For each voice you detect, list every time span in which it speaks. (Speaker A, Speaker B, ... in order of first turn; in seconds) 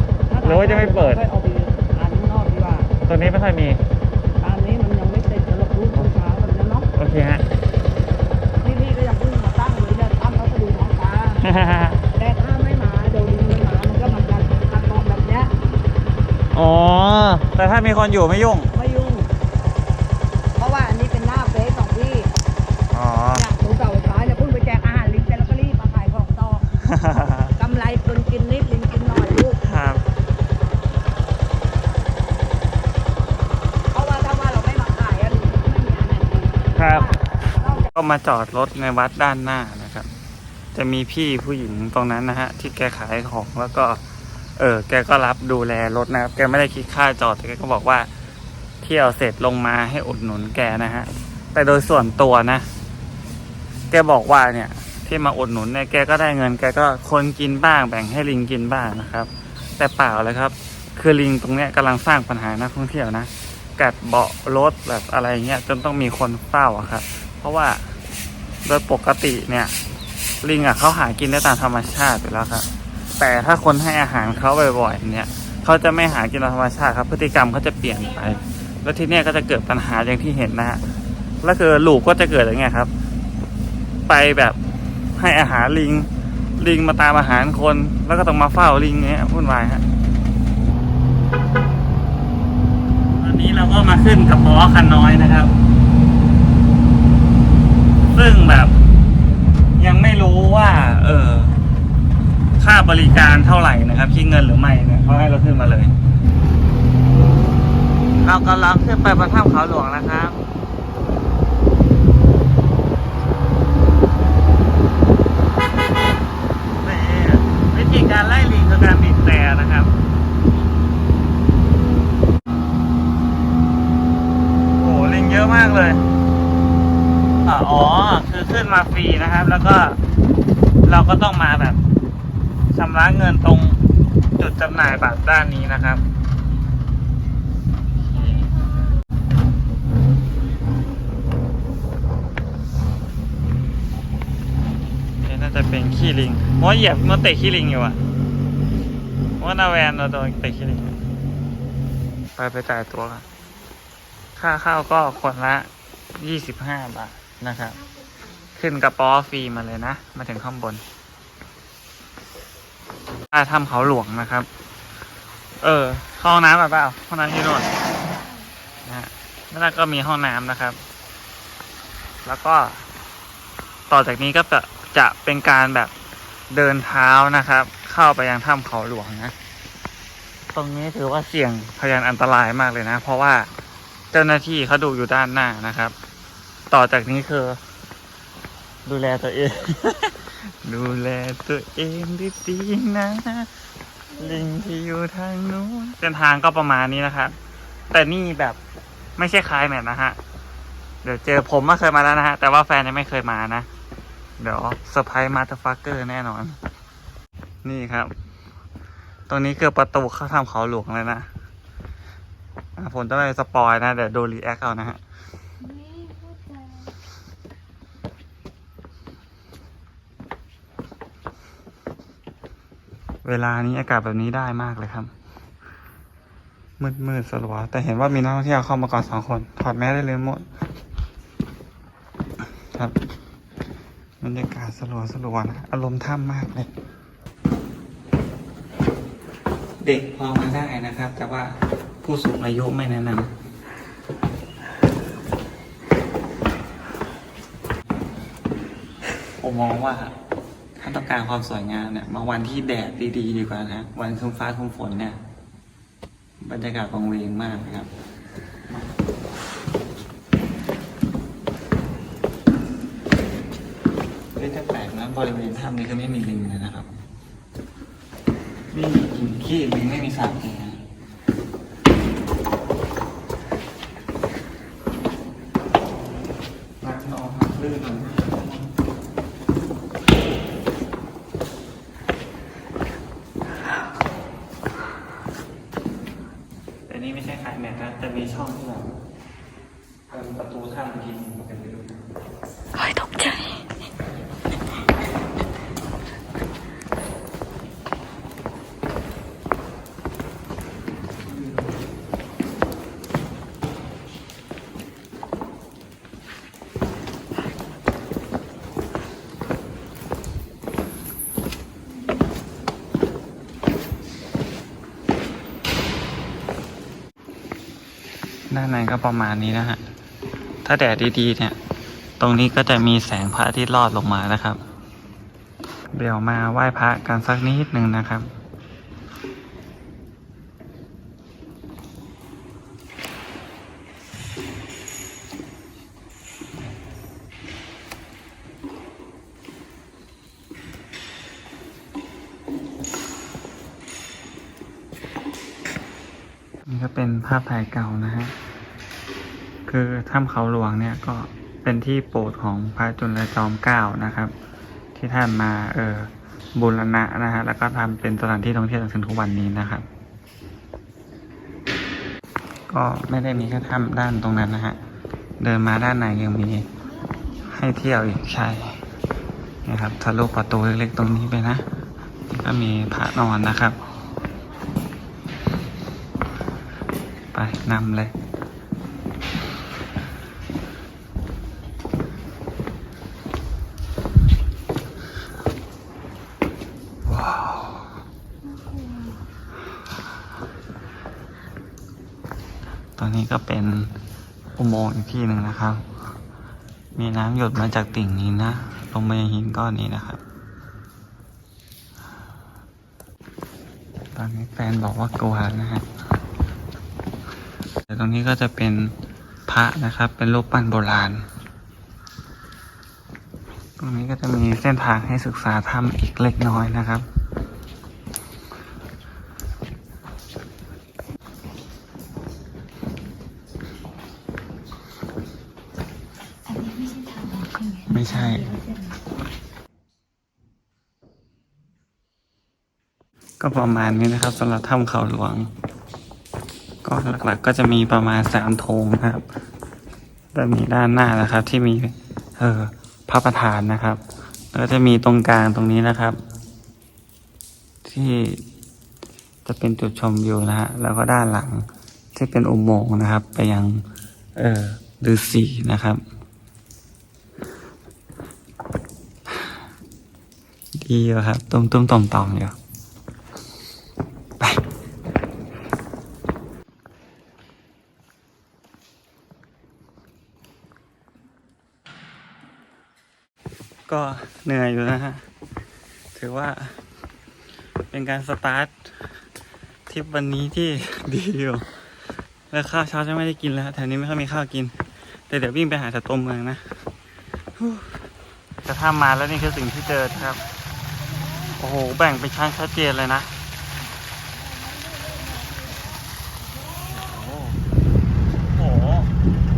Speaker A: 0.3-2.9, 4.4-6.9, 8.6-11.4, 12.1-15.5, 18.7-19.3, 20.6-22.3, 23.3-26.8, 27.6-29.6, 33.9-37.9
Speaker B: 0.4-1.2, 3.1-3.8, 7.0-7.4, 11.4-12.0, 16.5-18.7, 22.9-23.4, 26.8-27.5, 29.6-30.0, 36.8-37.1, 37.9-40.1, 40.7-44.0, 44.6-48.1, 48.8-52.7, 53.9-67.8, 68.7-69.8, 70.4-72.7, 73.2-80.8, 81.4-82.9, 84.1-84.6, 85.2-89.9, 93.2-95.5, 98.1-98.7, 99.8-101.5, 102.6-105.9, 108.2-110.4, 116.8-119.9, 124.8-126.0, 127.5-130.0, 130.8-131.8, 132.7-133.8, 134.4-136.0, 145.2-148.0, 149.4-151.0, 152.4-153.2, 154.4-157.8, 158.6-160.8, 163.3-164.5, 165.6-167.7, 168.8-170.8, 172.2-172.8, 173.9-175.9, 176.5-179.3, 180.6-183.5, 184.1-185.9, 186.7-187.6, 188.9-193.5, 194.2-197.3, 197.9-198.6, 199.2-200.2, 201.0-203.7, 204.4-206.6, 207.6-208.1, 209.3-211.3, 212.8-215.0, 223.2-225.1, 226.8-230.5, 234.2-236.7, 239.8-243.3, 249.4-250.1, 250.8-255.2, 256.4-257.9, 264.4-266.9, 268.7-270.8, 276.8-278.7, 286.9-289.0, 290.1-291.9, 318.5-319.8, 320.6-321.6, 322.2-324.6, 325.9-328.3, 346.7-348.3, 349.7-354.3, 354.9-359.9, 362.7-364.8, 365.4-366.7, 367.5-368.8, 369.7-371.6, 372.3-373.8, 377.3-378.1, 387.1-387.8, 393.0-393.9, 394.6-395.8, 397.0-400.2, 404.2-405.9, 407.9-408.9, 409.5-411.2, 413.8-417.1, 427.9-428.5, 433.4-435.5, 436.8-439.2, 440.3-444.0, 444.5-446.2, 447.8-448.4, 449.4-453.9, 454.4-456.0, 460.8-462.6, 473.9-475.2, 476.1-476.8, 477.9-478.8, 479.9-481.7, 482.5-484.7, 485.3-486.6, 487.6-487.9, 488.6-490.4, 491.6-493.3, 496.9-497.6, 498.5-499.1
Speaker C: 215.6-216.9, 292.8-293.6, 388.4-389.2, 426.5-428.9, 491.0-491.5, 494.3-496.9